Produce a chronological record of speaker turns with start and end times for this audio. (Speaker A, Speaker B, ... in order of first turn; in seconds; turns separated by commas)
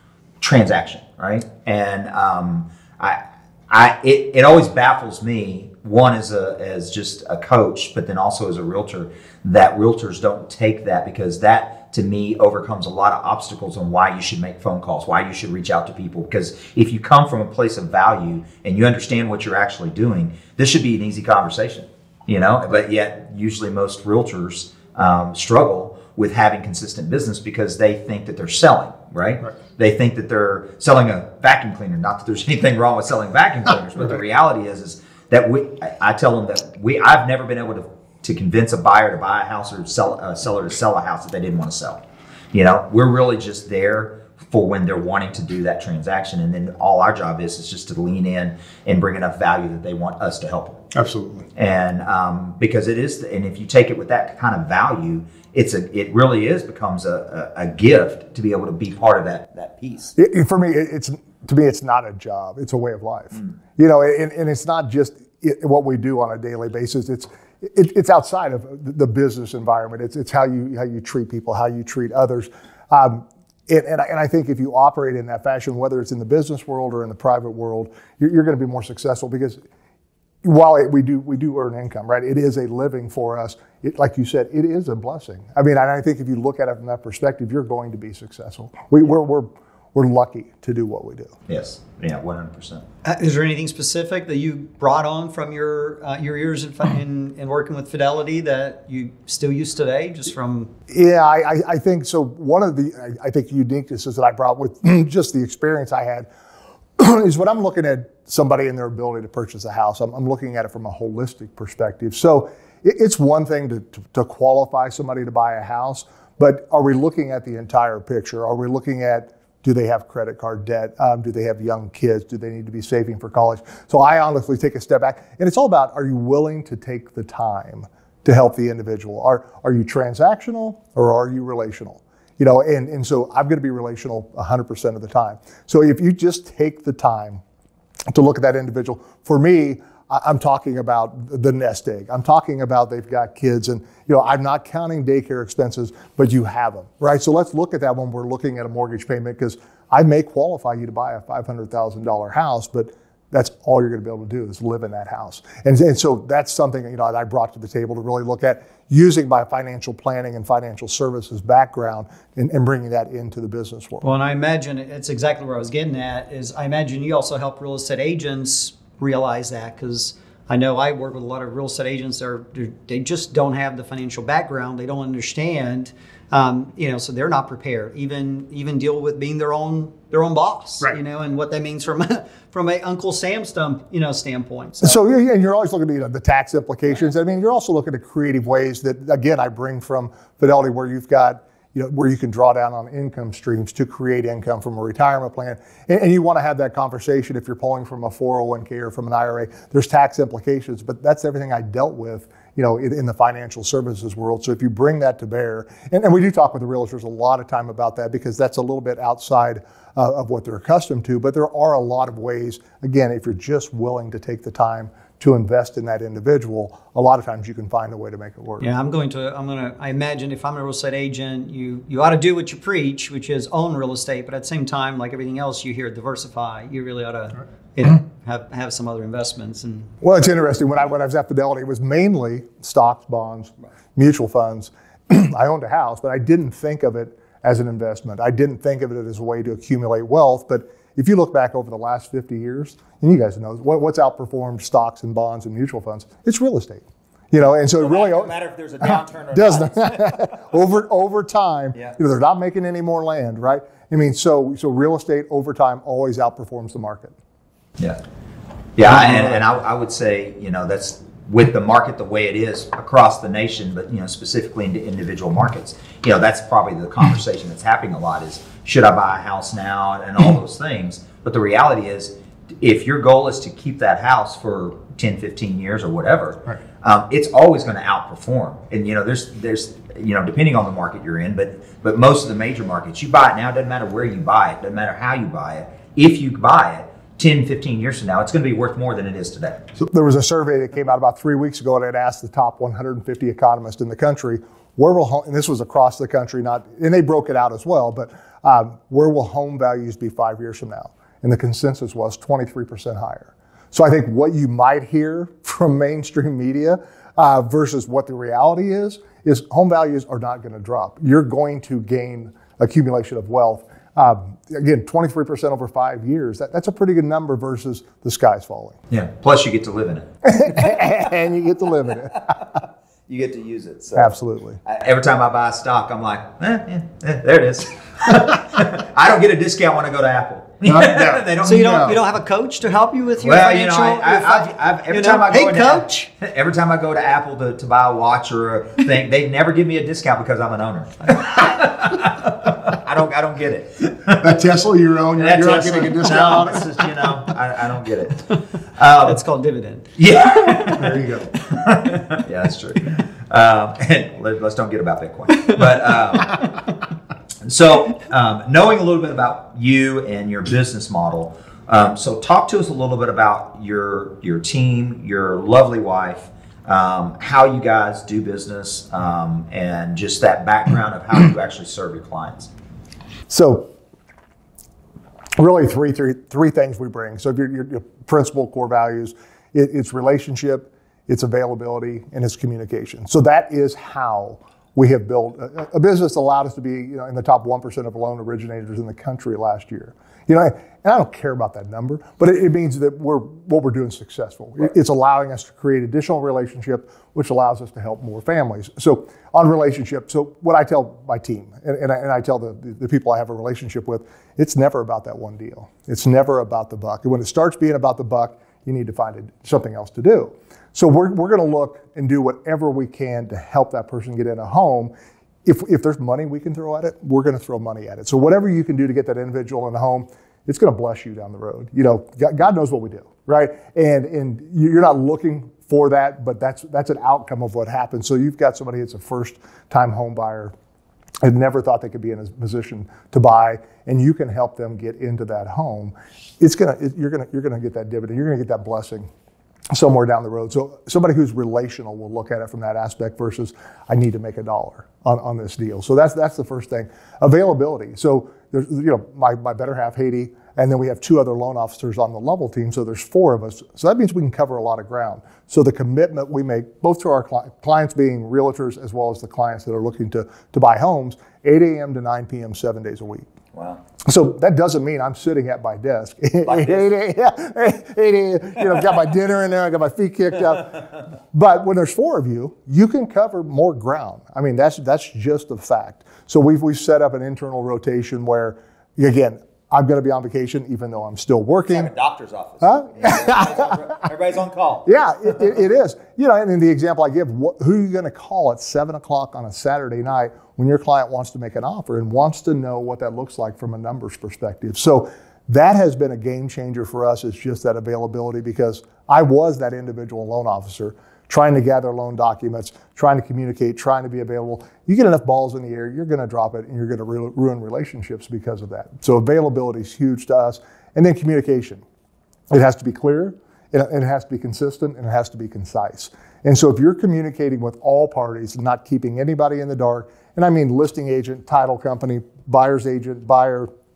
Speaker A: 0.4-50.8, Speaker B: 50.9-51.5, Speaker A: 51.5-60.1, Speaker B: 60.2-79.6, Speaker B: 80.4-91.3, Speaker A: 91.5-92.8, Speaker C: 93.0-100.7, Speaker B: 100.9-106.3, Speaker B: 107.0-137.4, Speaker B: 138.1-164.1, Speaker C: 164.0-185.0, Speaker B: 184.8-218.7, Speaker C: 218.6-229.9, Speaker B: 230.0-257.1, Speaker A: 247.8-250.4, Speaker A: 258.8-289.6, Speaker B: 258.9-259.4, Speaker B: 289.8-318.8, Speaker A: 318.9-320.6, Speaker B: 320.2-322.3, Speaker A: 323.1-324.1, Speaker B: 323.9-324.6, Speaker A: 324.6-332.0, Speaker B: 330.6-332.0, Speaker C: 331.4-336.1, Speaker A: 333.2-344.3, Speaker B: 344.1-346.9, Speaker A: 345.1-348.2, Speaker A: 348.8-349.2, Speaker C: 349.0-349.9, Speaker A: 350.0-356.5, Speaker B: 350.6-351.3, Speaker A: 357.4-372.5, Speaker B: 373.3-373.7, Speaker B: 375.4-414.9, Speaker B: 415.4-430.5, Speaker B: 431.2-439.1, Speaker B: 439.7-463.3, Speaker A: 463.5-463.8, Speaker B: 464.0-481.9, Speaker A: 466.5-466.9, Speaker A: 481.7-485.4, Speaker B: 482.6-483.8, Speaker B: 484.9-511.8, Speaker B: 512.5-523.7